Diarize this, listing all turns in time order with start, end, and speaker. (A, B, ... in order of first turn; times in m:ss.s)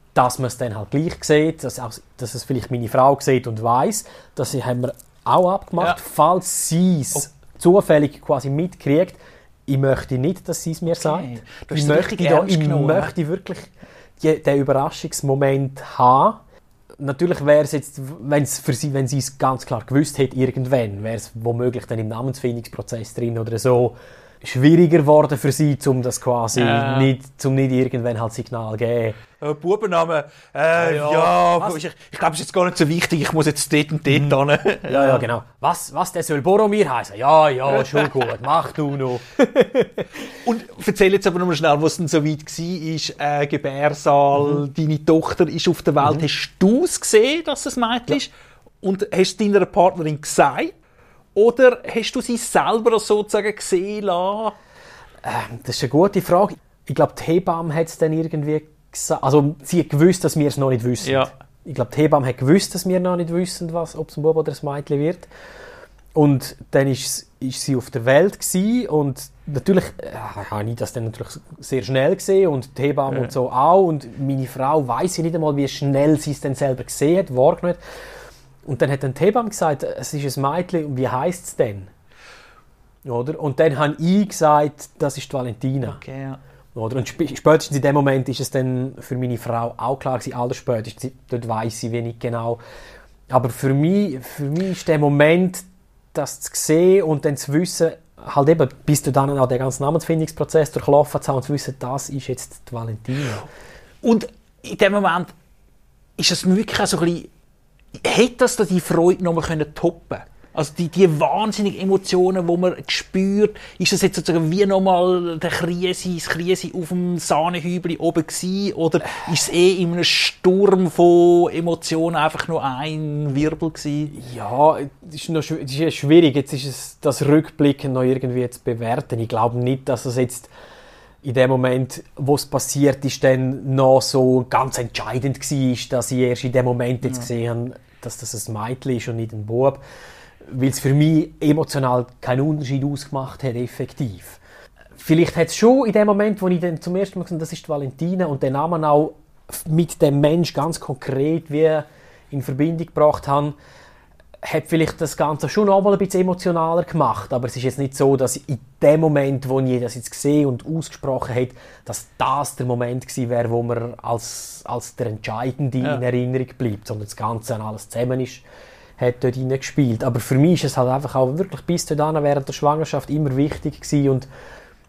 0:00.1-0:16.4 A
0:10.9-0:13.1 B
0:17.0-0:29.2 A
0:26.5-0:27.1 B
0:29.4-0:35.3 B
0:30.8-0:31.8 A
0:34.9-0:40.2 A
0:40.4-0:48.3 B
0:44.4-0:44.6 A
0:48.8-0:50.7 B
0:51.3-0:54.5 B
0:55.2-1:05.3 A
1:01.0-1:01.3 B
1:06.1-1:17.8 A
1:13.1-1:13.3 B
1:18.6-1:21.9 A
1:23.0-1:26.0 A
1:25.8-1:26.4 B
1:26.7-1:32.6 A
1:33.3-1:43.4 A
1:44.0-1:45.3 B
1:46.2-1:47.3 B
1:48.0-2:04.1 B
2:04.1-2:10.5 A
2:11.2-2:19.8 A
2:20.4-2:24.4 A
2:25.0-2:33.6 A
2:34.4-2:48.4 A
2:49.0-2:54.3 A